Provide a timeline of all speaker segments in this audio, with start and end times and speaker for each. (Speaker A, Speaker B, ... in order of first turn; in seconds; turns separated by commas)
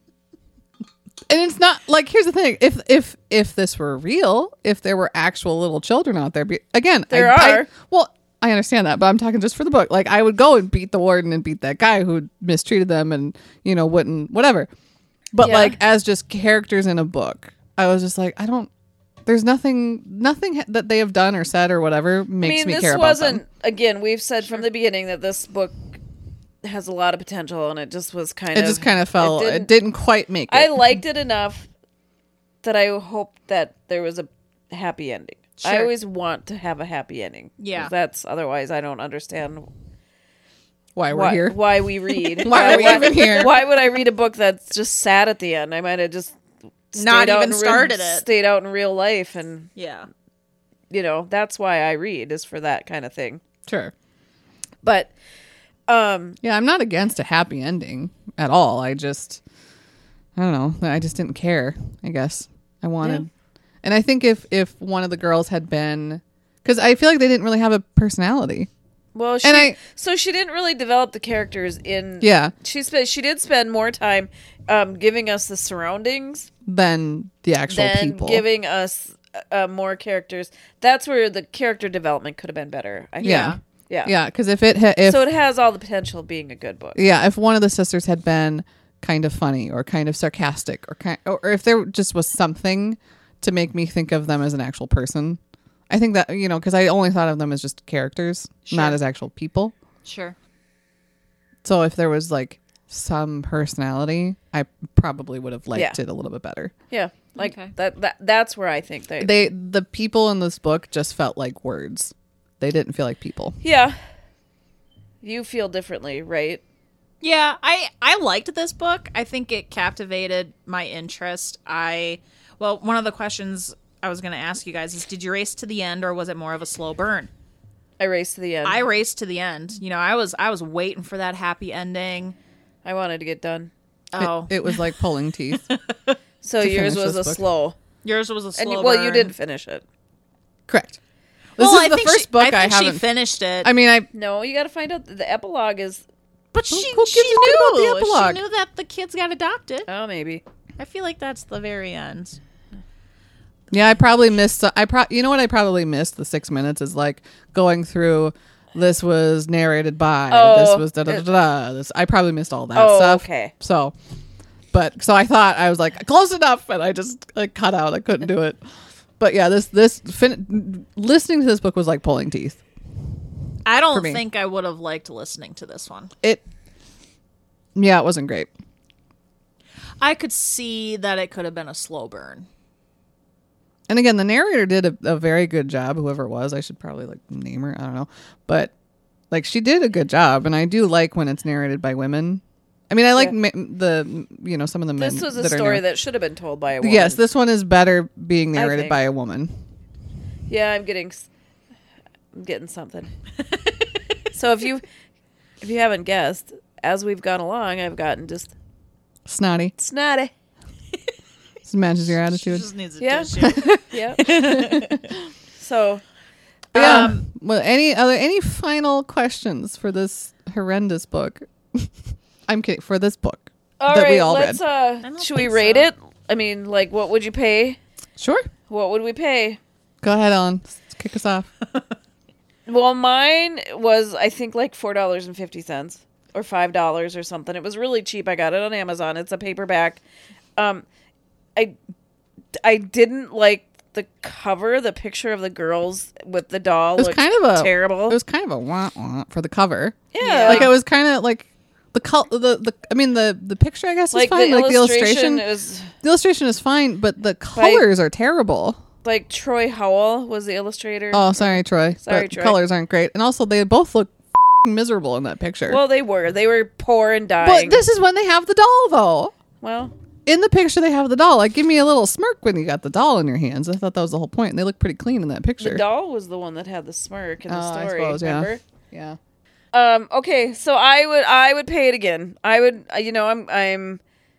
Speaker A: 1.3-14.7, Speaker B: 7.1-7.7, Speaker A: 15.3-18.7, Speaker B: 15.4-15.8, Speaker A: 19.2-23.4, Speaker B: 22.4-25.8, Speaker B: 26.6-29.7, Speaker A: 28.5-30.8, Speaker B: 30.5-31.7, Speaker B: 32.6-39.7, Speaker C: 35.6-35.9, Speaker C: 37.6-37.9, Speaker A: 40.9-43.5, Speaker B: 41.1-46.4, Speaker C: 42.4-43.4, Speaker B: 46.9-49.7, Speaker C: 46.9-48.2, Speaker C: 49.8-50.1, Speaker B: 50.9-53.4, Speaker A: 53.7-53.9, Speaker B: 54.8-55.1, Speaker B: 55.9-56.4, Speaker A: 56.4-59.4, Speaker A: 60.4-63.3, Speaker A: 63.8-68.7, Speaker B: 69.1-76.5, Speaker A: 69.4-69.8, Speaker A: 72.2-72.5, Speaker A: 76.6-78.4, Speaker B: 77.7-84.1, Speaker C: 83.2-83.6, Speaker A: 83.2-85.2, Speaker B: 85.0-87.0, Speaker A: 86.9-99.7, Speaker C: 98.7-99.0, Speaker C: 100.0-100.3, Speaker A: 101.6-106.7, Speaker B: 106.9-109.3, Speaker C: 107.4-107.7, Speaker A: 109.2-113.5, Speaker B: 113.6-114.0, Speaker B: 115.2-116.6, Speaker C: 117.2-127.3, Speaker B: 128.0-128.8, Speaker C: 128.6-132.3, Speaker B: 132.8-133.7, Speaker C: 134.1-134.8, Speaker A: 134.2-135.7, Speaker B: 136.4-137.8, Speaker A: 136.6-137.4, Speaker C: 138.0-139.3, Speaker B: 138.6-139.8, Speaker A: 140.7-141.0, Speaker A: 141.6-143.0, Speaker C: 141.6-143.7, Speaker A: 143.6-144.1, Speaker B: 144.1-146.0, Speaker C: 146.5-149.9, Speaker A: 146.7-148.4, Speaker B: 149.9-150.4, Speaker C: 150.8-152.4, Speaker A: 153.7-163.9, Speaker B: 160.3-161.2, Speaker B: 162.7-163.5, Speaker A: 164.7-168.6, Speaker A: 169.2-172.6, Speaker C: 173.6-176.1, Speaker A: 173.9-174.2, Speaker A: 177.7-178.5, Speaker C: 180.0-182.5, Speaker A: 183.9-188.7, Speaker A: 189.3-195.8, Speaker B: 195.0-197.2, Speaker A: 196.8-199.5, Speaker B: 198.6-199.0, Speaker B: 200.5-201.3, Speaker B: 202.3-203.1, Speaker B: 204.3-204.8, Speaker B: 205.6-208.5, Speaker A: 209.2-209.7, Speaker B: 209.8-210.3, Speaker A: 211.6-212.7, Speaker C: 212.3-215.1, Speaker B: 213.0-214.2, Speaker A: 213.4-214.9, Speaker B: 215.6-216.0, Speaker C: 216.7-217.2, Speaker A: 216.7-221.9, Speaker A: 222.5-224.6, Speaker B: 223.8-227.8, Speaker C: 225.0-225.9, Speaker A: 228.2-228.5, Speaker B: 228.7-229.6, Speaker A: 230.0-231.5, Speaker B: 232.7-240.0, Speaker B: 240.6-240.8, Speaker B: 242.6-248.2, Speaker A: 247.0-255.4, Speaker B: 250.1-250.7, Speaker C: 250.2-250.7, Speaker B: 254.1-255.9, Speaker A: 256.0-258.8, Speaker B: 257.6-257.8, Speaker B: 259.0-262.6, Speaker A: 261.1-265.8, Speaker B: 265.7-267.8, Speaker A: 267.4-269.3, Speaker B: 269.6-269.9, Speaker A: 270.2-275.8, Speaker B: 275.6-278.6, Speaker A: 277.5-279.2, Speaker B: 279.7-284.0